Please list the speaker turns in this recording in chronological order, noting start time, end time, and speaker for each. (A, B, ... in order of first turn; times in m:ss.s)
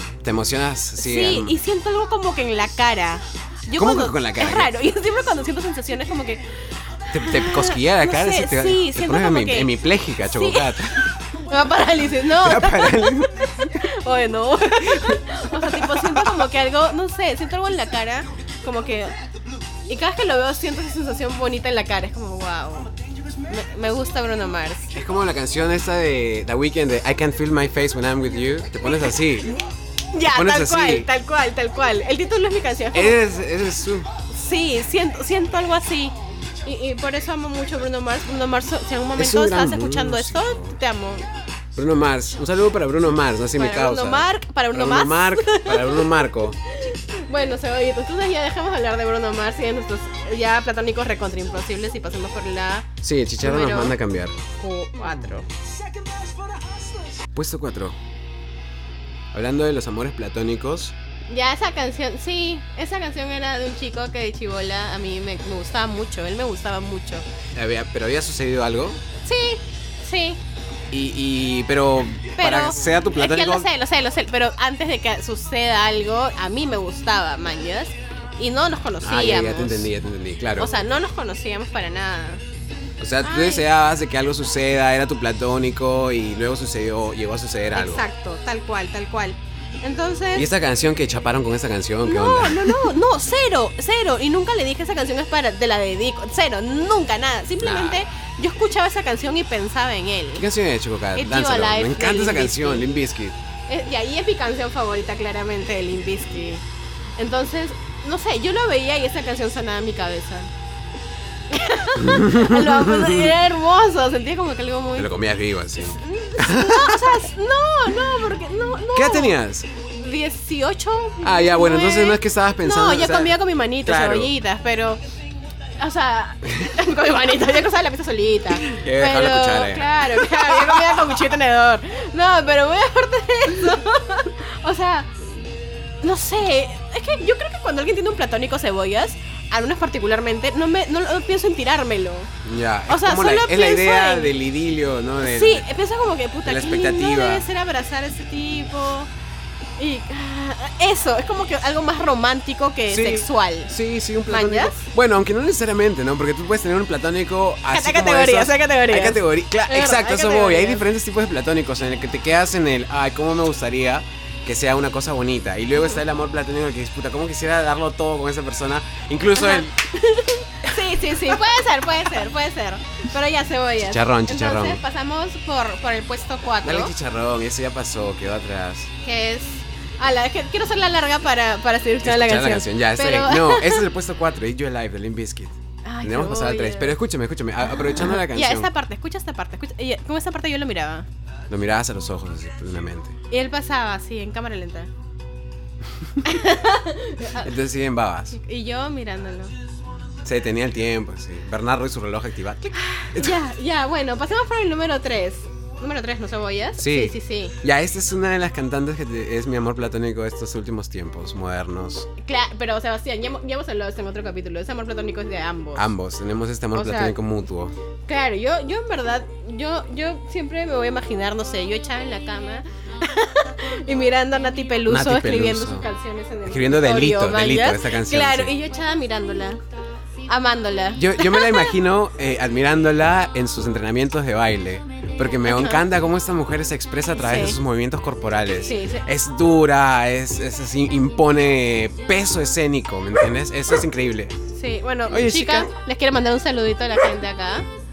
0:00.2-0:01.6 A
0:01.0-0:06.4 B
0:03.8-0:04.7 A
0:07.1-0:11.1 A
0:07.1-0:19.1 B
0:12.3-0:13.7 A
0:15.9-0:16.3 A
0:19.9-0:22.9 B
0:23.5-0:24.9 B
0:24.9-0:29.6 A
0:28.8-0:29.2 B
0:30.1-0:33.2 B
0:30.2-0:31.1 A
0:32.9-0:34.1 A
0:34.3-0:41.3 B
0:39.2-0:40.8 A
0:41.8-0:46.6 A
0:43.6-0:52.9 B
0:53.0-0:54.4 A
0:53.4-0:54.0 B
0:54.6-0:55.5 B
0:57.3-0:58.0 A
0:59.3-1:00.9 A
1:01.3-1:07.2 B
1:07.5-1:09.0 A
1:09.2-1:10.4 B
1:10.9-1:13.7 A
1:12.4-1:19.9 B
1:19.0-1:20.7 A
1:20.6-1:22.4 B
1:23.0-1:28.0 A
1:23.2-1:23.7 B
1:27.7-1:30.5 B
1:30.4-1:32.9 A
1:32.0-1:40.5 B
1:37.6-1:38.0 A
1:40.4-1:43.4 A
1:41.2-1:42.9 B
1:43.7-1:46.6 B
1:47.2-1:50.5 B
1:51.5-1:55.2 B
1:52.1-1:53.3 A
1:55.0-1:57.2 A
1:55.8-2:05.0 B
1:58.9-1:59.7 A
2:01.2-2:04.3 A
2:05.8-2:15.1 B
2:08.6-2:11.3 A
2:16.0-2:22.3 B
2:22.4-2:25.7 A
2:22.9-2:24.3 B
2:25.2-2:29.1 B
2:26.4-2:27.4 A
2:29.8-2:34.8 B
2:32.9-2:49.8 A
2:37.7-2:40.8 B
2:49.4-2:56.9 B
2:53.9-2:54.8 A
2:56.6-2:58.9 A
2:59.0-3:03.9 B
3:02.0-3:08.7 A
3:05.8-3:07.0 B
3:07.7-3:11.1 B
3:11.5-3:13.2 A
3:13.3-3:14.9 B
3:16.2-3:17.5 B
3:17.4-3:18.4 A
3:18.4-3:19.5 B
3:20.2-3:23.3 A
3:22.8-3:27.6 B
3:26.8-3:32.1 A
3:32.2-3:35.9 B
3:35.8-3:37.7 A
3:36.7-3:37.2 B
3:38.1-3:49.6 B
3:44.9-3:45.9 A
3:46.5-3:48.6 A
3:50.3-3:51.8 B
3:51.0-4:04.4 A
3:55.4-3:55.8 B
3:57.2-3:57.6 B
3:58.6-3:59.1 B
4:04.5-4:07.7 B
4:05.1-4:05.7 A